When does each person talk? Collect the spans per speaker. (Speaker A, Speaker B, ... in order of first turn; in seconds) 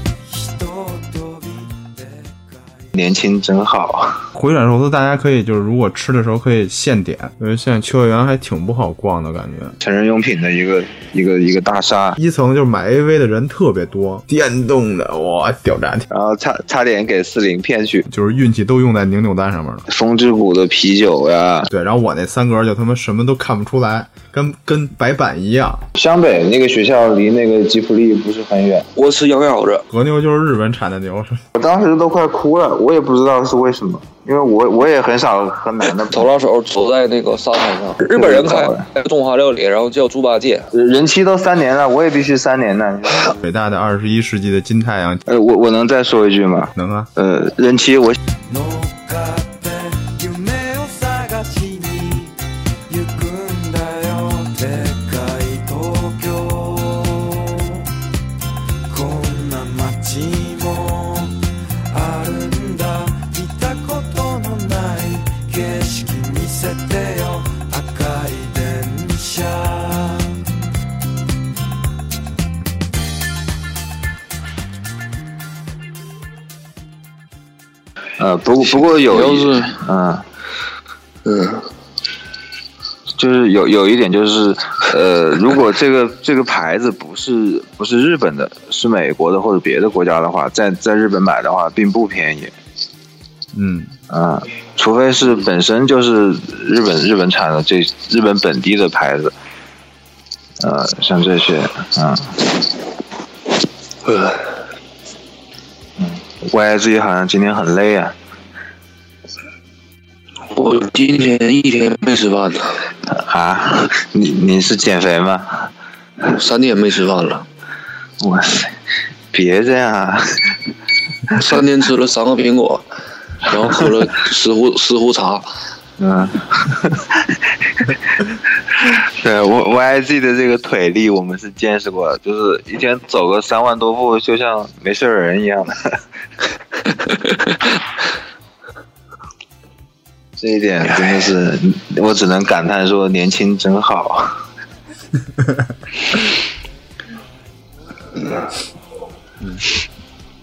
Speaker A: 0.2-2.9, 48.5-52.4, 52.9-57.9, 58.9-61.4, 61.9-70.4
Speaker B: 2.9-4.3, 9.8-12.2, 16.1-18.1, 19.9-21.7, 26.0-28.9, 31.6-36.3, 38.1-38.9, 40.7-43.4, 45.3-48.2, 78.2-80.3, 83.2-92.5, 94.1-99.3, 100.6-102.5, 106.3-108.2, 113.1-115.7, 118.2-118.7, 119.3-120.5, 126.0-135.8, 140.4-144.4
Speaker C: 4.3-9.8, 12.2-16.1, 18.1-19.9, 21.7-25.9, 29.9-31.4, 43.4-45.2, 46.8-47.1, 93.5-93.9, 145.3-145.7, 149.4-149.7
Speaker D: 29.0-29.9, 36.0-40.7, 78.8-79.8, 81.2-81.7, 104.0-104.5, 110.5-112.9, 116.2-117.5, 121.3-122.9, 123.4-125.5